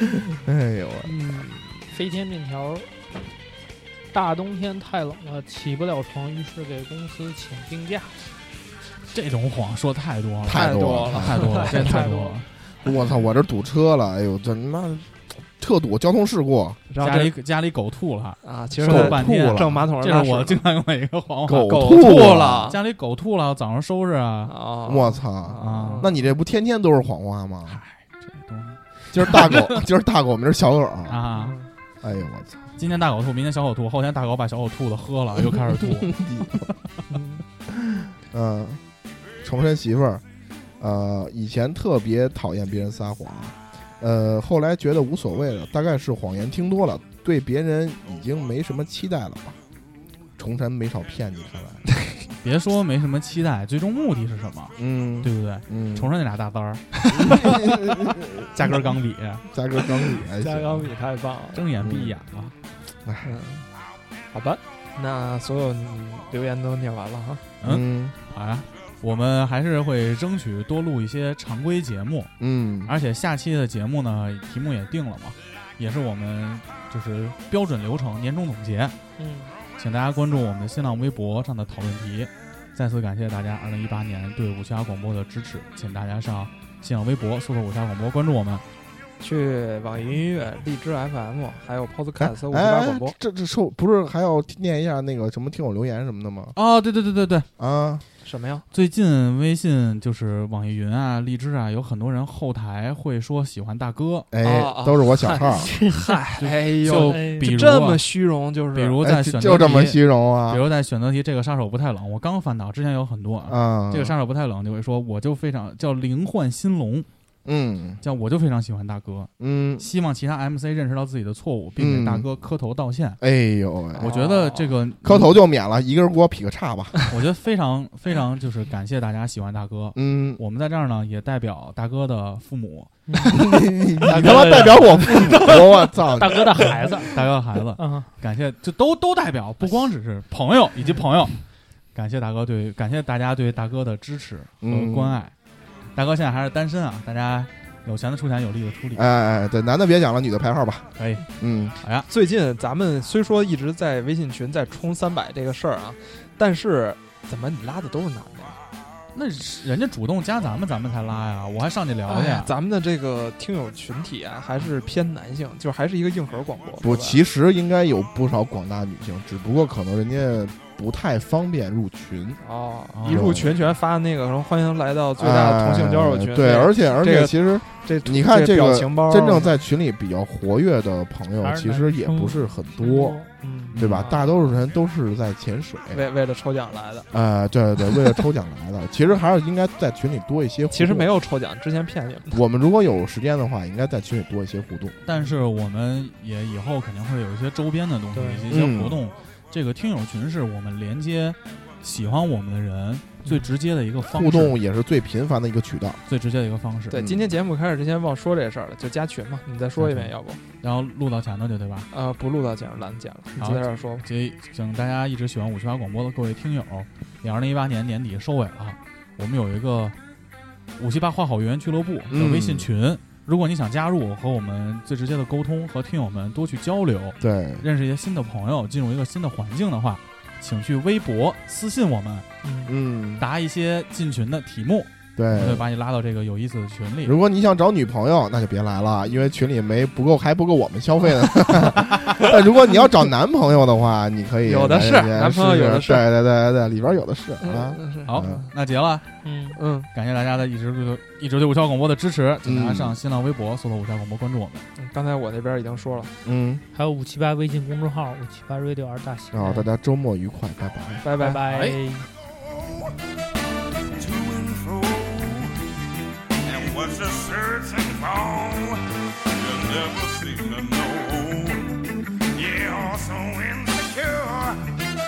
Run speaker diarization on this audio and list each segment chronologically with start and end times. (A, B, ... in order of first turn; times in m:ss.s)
0:00.3-0:01.1 A
0:01.0-0:01.9 B
0:01.9-0:02.9 C
0:04.1-0:08.2 C
0:09.1-0:12.5 D
0:10.4-0:11.7 A
0:10.5-0:12.3 B
0:11.8-0:12.4 C
0:12.8-0:16.8 A
0:16.9-0:17.4 B
0:17.0-0:24.5 D
0:18.4-0:20.6 B
0:18.8-0:19.8 A
0:21.4-0:22.7 A
0:21.6-0:22.8 B
0:24.5-0:26.1 B
0:24.9-0:27.8 A
0:25.6-0:26.1 D
0:27.7-0:29.6 D
0:29.1-0:31.2 A
0:31.1-0:31.6 D
0:31.3-0:31.7 B
0:32.0-0:32.7 A
0:32.8-0:36.7 D
0:35.8-0:36.6 A
0:37.7-0:38.8 A
0:39.4-0:40.2 A
0:40.8-0:49.6 A
0:50.4-0:51.9 A
0:52.4-0:57.9 D
0:54.8-0:56.1 A
0:57.1-0:58.8 A
0:58.5-0:59.4 D
0:59.5-1:00.9 A
1:00.3-1:01.7 B
1:01.5-1:02.5 D
1:01.8-1:02.2 A
1:03.0-1:03.3 A
1:03.2-1:03.7 B
1:04.3-1:07.5 B
1:07.6-1:12.3 D
1:07.6-1:08.2 A
1:12.4-1:12.9 A
1:12.9-1:19.0 D
1:19.2-1:19.5 C
1:19.8-1:28.6 D
1:29.2-1:33.2 B
1:32.2-1:36.6 A
1:36.6-1:37.5 D
1:37.6-1:38.0 A
1:38.2-1:38.7 B
1:38.7-1:44.3 D
1:44.3-1:45.7 A
1:44.4-1:49.0 B
1:45.6-1:46.1 C
1:46.4-1:48.0 D
1:46.9-1:47.5 C
1:48.7-1:57.1 D
1:49.0-1:50.6 A
1:53.5-1:54.1 A
1:57.4-1:58.0 A
1:58.0-2:03.2 D
1:59.4-1:59.9 A
2:01.8-2:02.3 A
2:03.2-2:04.2 A
2:04.0-2:04.8 B
2:04.0-2:05.3 D
2:05.0-2:07.0 A
2:07.1-2:12.9 D
2:10.0-2:10.4 A
2:13.1-2:13.4 C
2:13.3-2:16.7 A
2:14.1-2:17.2 C
2:14.1-2:15.5 D
2:17.0-2:21.4 D
2:17.8-2:18.1 C
2:21.9-2:25.4 D
2:24.6-2:25.2 A
2:25.9-2:29.0 D
2:28.9-2:31.8 A
2:31.0-2:31.2 D
2:31.8-2:32.1 D
2:32.1-2:38.6 B
2:39.1-2:42.5 D
2:42.1-2:47.2 B
2:46.8-2:52.4 A
2:52.4-2:59.6 B
2:52.9-2:53.6 D
2:53.1-2:53.6 A
2:55.2-3:03.2 A
3:01.4-3:03.8 C
3:03.7-3:04.1 D
3:03.7-3:06.1 A
3:03.8-3:04.4 B
3:05.9-3:07.1 B
3:07.1-3:11.1 A
3:10.7-3:12.4 B
3:12.3-3:15.0 A
3:15.0-3:24.6 D
3:18.1-3:18.5 C
3:18.5-3:19.0 A
3:23.2-3:23.5 C
3:24.0-3:26.0 A
3:26.1-3:27.0 D
3:26.9-3:30.4 B
3:26.9-3:27.2 A
3:29.8-3:31.9 D
3:31.9-3:34.1 B
3:33.4-3:40.0 D
3:40.8-3:52.3 D
3:42.1-3:42.7 A
3:47.2-3:47.7 A
3:52.4-3:52.7 C
3:52.7-3:53.3 A
3:53.2-3:57.2 D
3:55.2-3:55.7 A
3:57.0-4:08.4 A
4:04.4-4:06.1 B
4:07.4-4:08.5 B
4:08.1-4:09.1 D
4:09.2-4:09.6 C
4:09.6-4:09.9 B
4:09.9-4:14.7 D
4:12.4-4:13.0 A
4:14.8-4:16.1 B
4:16.2-4:16.6 A
4:16.7-4:19.7 C
4:19.3-4:21.0 A
4:21.0-4:21.5 B
4:21.2-4:22.1 C
4:21.5-4:21.8 D
4:22.6-4:22.9 E
4:24.0-4:25.6 E
4:26.4-4:34.7 E